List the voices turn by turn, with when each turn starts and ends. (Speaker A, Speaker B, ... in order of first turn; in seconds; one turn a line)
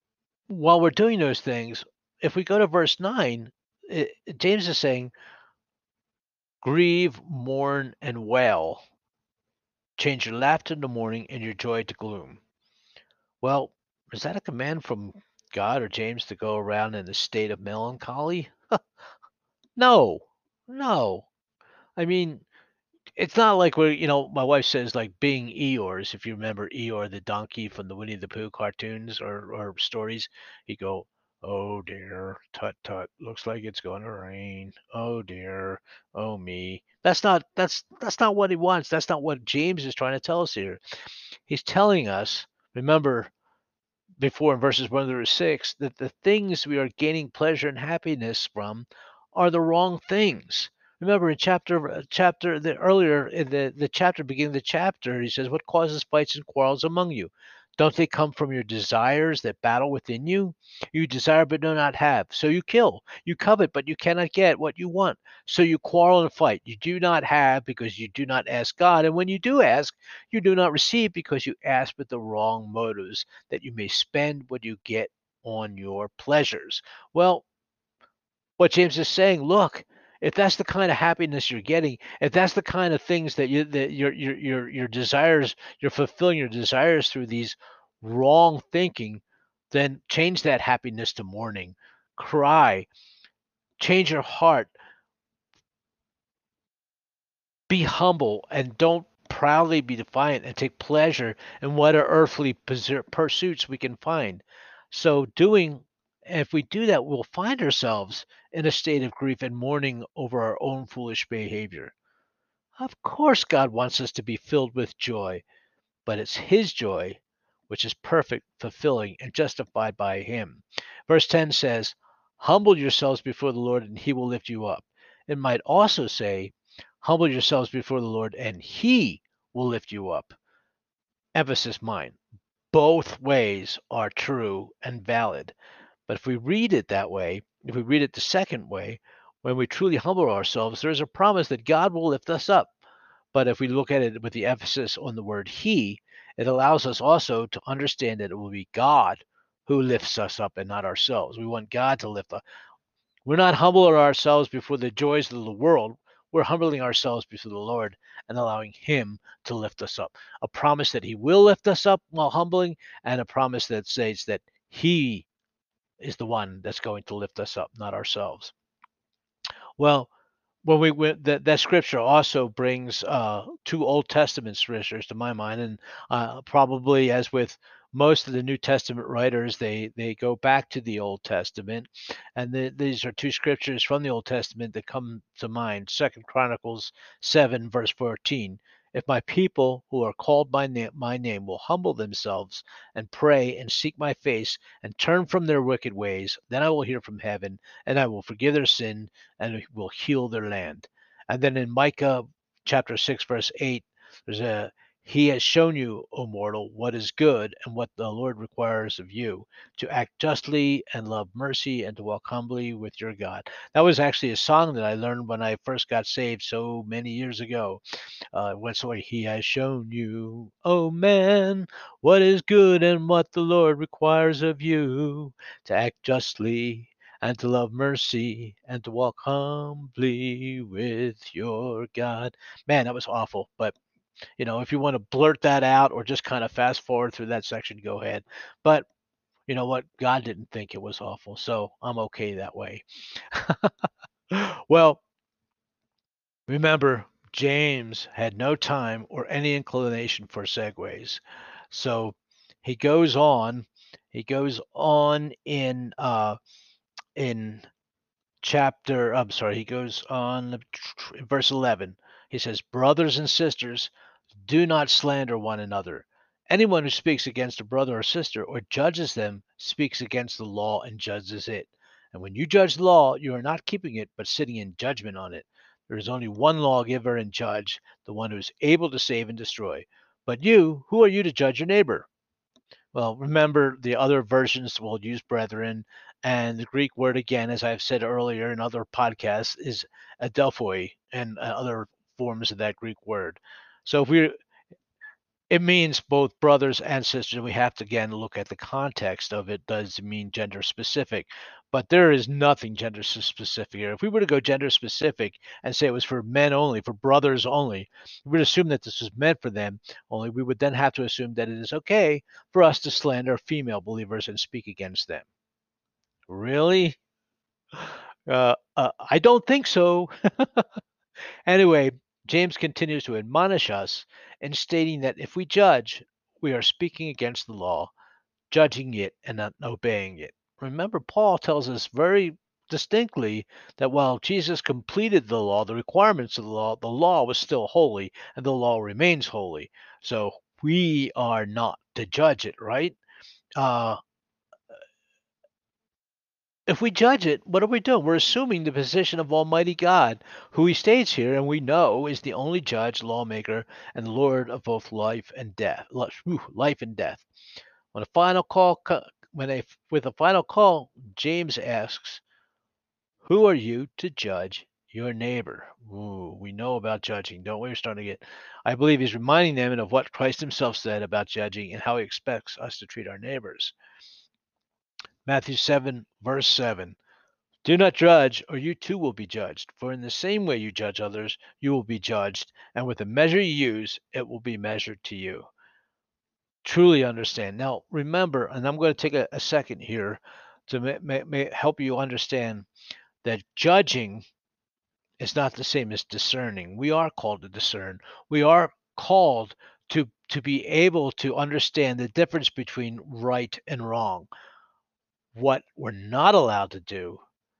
Speaker A: 0.5-5.1
Speaker A: 6.6-8.8
Speaker A: 10.0-12.4
Speaker A: 13.4-18.8
Speaker A: 19.8-21.3
Speaker A: 22.0-22.4
Speaker A: 23.2-40.8
Speaker A: 41.5-43.3
Speaker A: 44.2-77.4
Speaker A: 78.6-92.9
Speaker A: 93.8-94.7
Speaker A: 97.7-111.9
Speaker A: 112.8-115.4
Speaker A: 116.0-130.3
Speaker A: 131.3-132.2
Speaker A: 132.7-135.5
Speaker A: 136.1-142.7
Speaker A: 143.3-152.4
Speaker A: 153.2-165.3
Speaker A: 166.0-168.5
Speaker A: 169.8-170.1
Speaker A: 170.6-217.8
Speaker A: 218.3-233.8
Speaker A: 234.4-238.9
Speaker A: 239.5-243.7
Speaker A: 244.3-245.0
Speaker A: 246.5-256.4
Speaker A: 257.1-257.6
Speaker A: 258.4-263.9
Speaker A: 264.4-282.1
Speaker A: 282.9-294.3
Speaker A: 295.5-315.2
Speaker A: 316.3-317.0
Speaker A: 317.7-320.6
Speaker A: 321.4-327.9
Speaker A: 328.5-343.0
Speaker A: 343.6-344.0
Speaker A: 346.7-357.2
Speaker A: 357.9-362.2
Speaker A: 363.2-373.7
Speaker A: 375.2-377.0
Speaker A: 377.6-385.5
Speaker A: 386.6-392.7
Speaker A: 393.2-394.2
Speaker A: 395.2-404.3
Speaker A: 405.3-407.2